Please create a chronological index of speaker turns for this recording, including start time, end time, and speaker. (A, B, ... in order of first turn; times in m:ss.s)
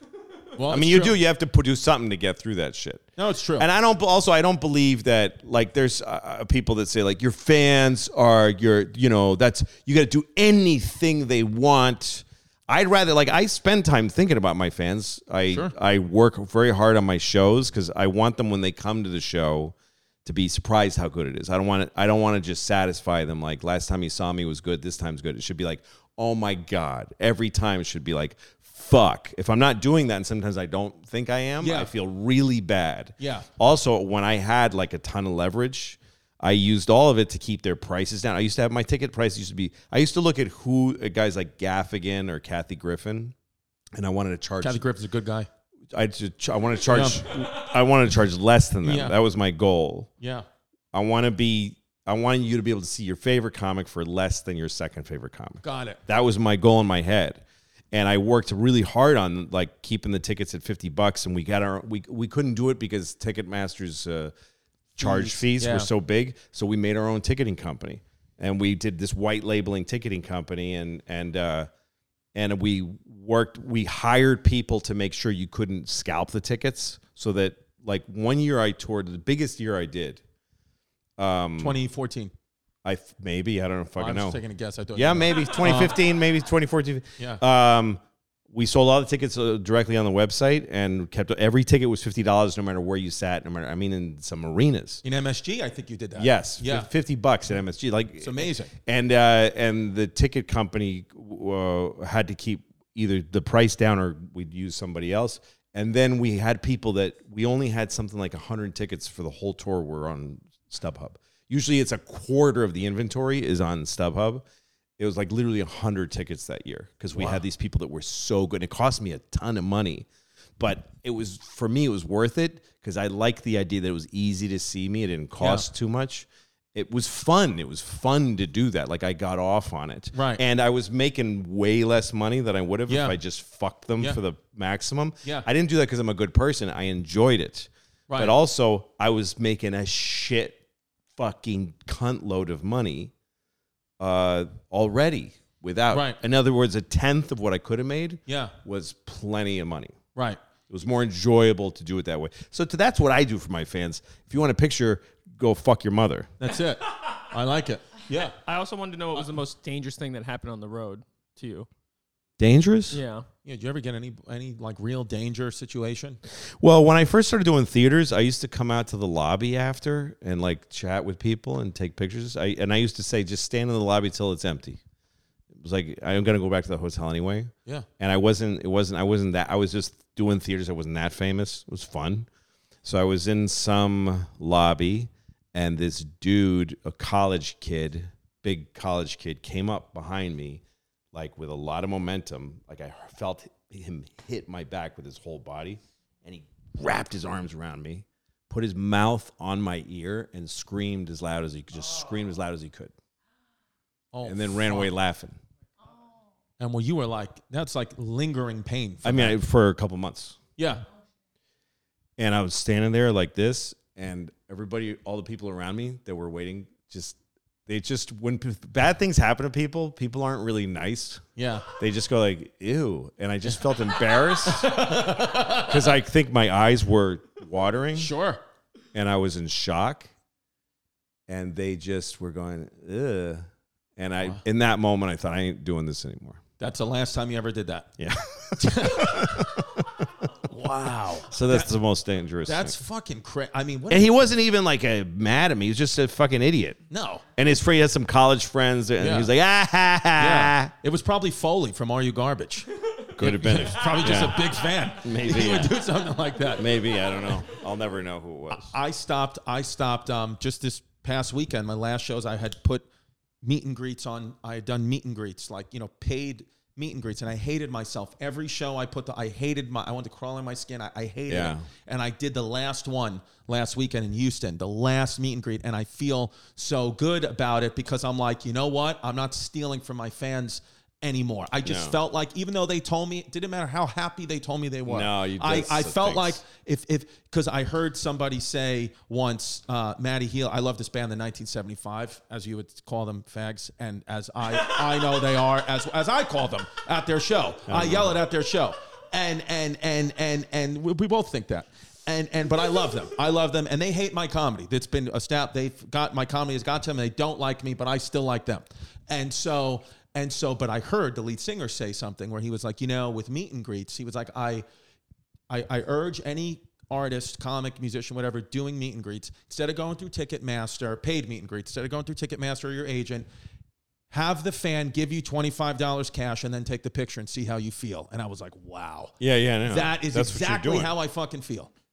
0:00.5-0:01.2 A
0:00.7-0:43.3 B
0:03.2-0:03.7 A
0:31.6-0:31.9 A
0:33.2-0:33.5 A
0:43.9-0:44.8 B
0:44.6-0:45.5 A
0:45.9-0:50.1 B
0:46.9-0:47.3 A
0:48.8-0:49.2 A
0:50.2-0:50.4 A
0:50.9-1:04.3 B
0:55.6-0:56.0 A
1:05.0-1:11.7 B
1:05.0-1:05.9 A
1:12.3-1:20.2 B
1:21.2-1:21.8 B
1:21.6-1:22.3 A
1:22.8-1:24.4 B
1:24.0-1:26.0 A
1:24.9-1:35.0 B
1:35.0-1:36.9 A
1:36.2-1:54.4 B
1:38.2-1:38.7 A
1:55.0-2:00.1 B
1:57.2-1:57.4 A
2:00.6-2:20.6 B
2:05.4-2:05.7 A
2:10.1-2:10.4 A
2:12.9-2:13.2 A
2:18.1-2:18.3 A
2:21.2-2:23.1 B
2:24.0-2:29.9 B
2:25.9-2:26.2 A
2:28.3-2:28.5 A
2:30.7-2:36.3 B
2:36.4-2:38.3 A
2:38.3-2:41.7 C
2:42.4-2:43.0 B
2:42.9-2:43.2 C
2:43.4-2:46.2 A
2:46.6-2:54.8 B
2:55.6-3:02.3 B
3:02.8-3:10.6 B
3:11.1-3:22.9 B
3:24.1-3:24.9 A
3:24.2-3:25.4 B
3:26.6-3:29.4 A
3:29.0-3:30.4 B
3:30.6-3:30.8 A
3:32.2-3:41.2 B
3:41.4-3:41.7 A
3:41.7-3:48.1 B
3:44.3-3:45.8 A
3:47.9-3:48.4 A
3:48.9-3:50.1 B
3:51.3-3:53.4 B
3:54.0-3:56.4 B
3:56.6-3:57.9 A
3:58.0-4:00.3 B
3:58.6-3:59.5 A
4:00.4-4:01.7 A
4:01.3-4:02.8 B
4:02.4-4:04.2 A
4:03.9-4:06.8 B
4:06.9-4:07.2 A
4:07.3-4:10.7 B
4:09.0-4:09.3 A
4:10.2-4:16.7 A
4:13.1-4:15.8 B
4:16.5-4:18.7 B
4:18.5-4:22.8 A
4:23.4-5:14.6 A
4:31.3-4:31.6 B
4:41.6-4:42.0 B
4:44.9-4:46.4 B
4:57.7-4:58.2 B
5:15.5-5:23.2 A
5:24.1-5:29.1 A
5:29.2-5:30.9 B
5:29.7-5:31.7 A